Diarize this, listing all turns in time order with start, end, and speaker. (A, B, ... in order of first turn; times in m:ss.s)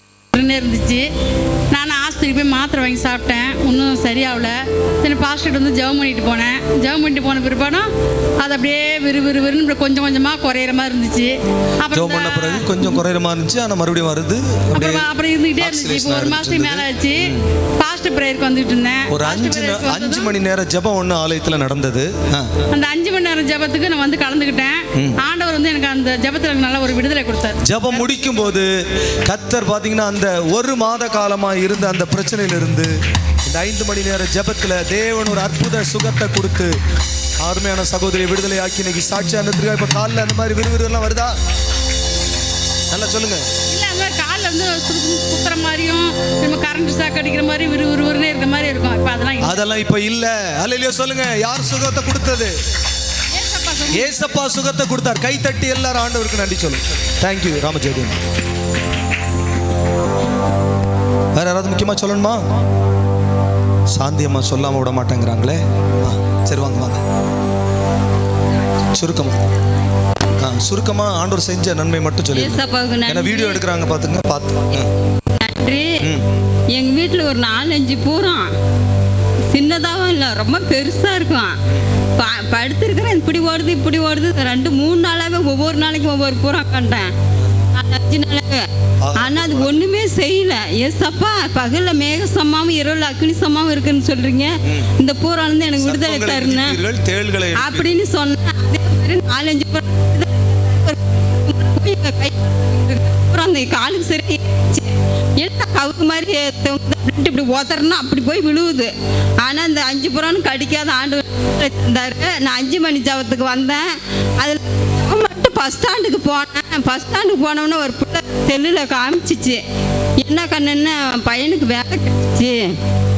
0:00.3-0:01.1 A
0:01.7-0:07.9 A
0:08.4-0:13.0 A
0:11.9-0:15.1 B
0:14.7-0:20.3 A
0:15.6-0:17.5 B
0:19.1-0:22.5 B
0:22.7-0:27.6 A
0:27.6-0:28.7 B
0:29.3-0:32.9 B
0:33.4-0:36.7 B
0:37.4-0:41.3 B
0:42.9-0:43.5 B
0:43.7-0:49.6 A
0:49.4-0:52.5 B
0:53.3-0:54.4 A
0:53.9-0:58.2 B
1:01.3-1:02.4 B
1:03.9-1:07.0 B
1:08.9-1:09.4 B
1:10.4-1:14.9 B
1:12.3-1:13.6 C
1:15.3-1:16.0 C
1:16.0-1:16.2 B
1:16.7-1:18.5 C
1:19.5-1:21.6 C
1:22.2-1:27.1 C
1:27.7-1:36.8 C
1:29.0-1:29.9 B
1:35.8-1:37.9 B
1:37.5-1:48.9 C
1:49.4-1:59.6 C
2:00.2-2:02.7 C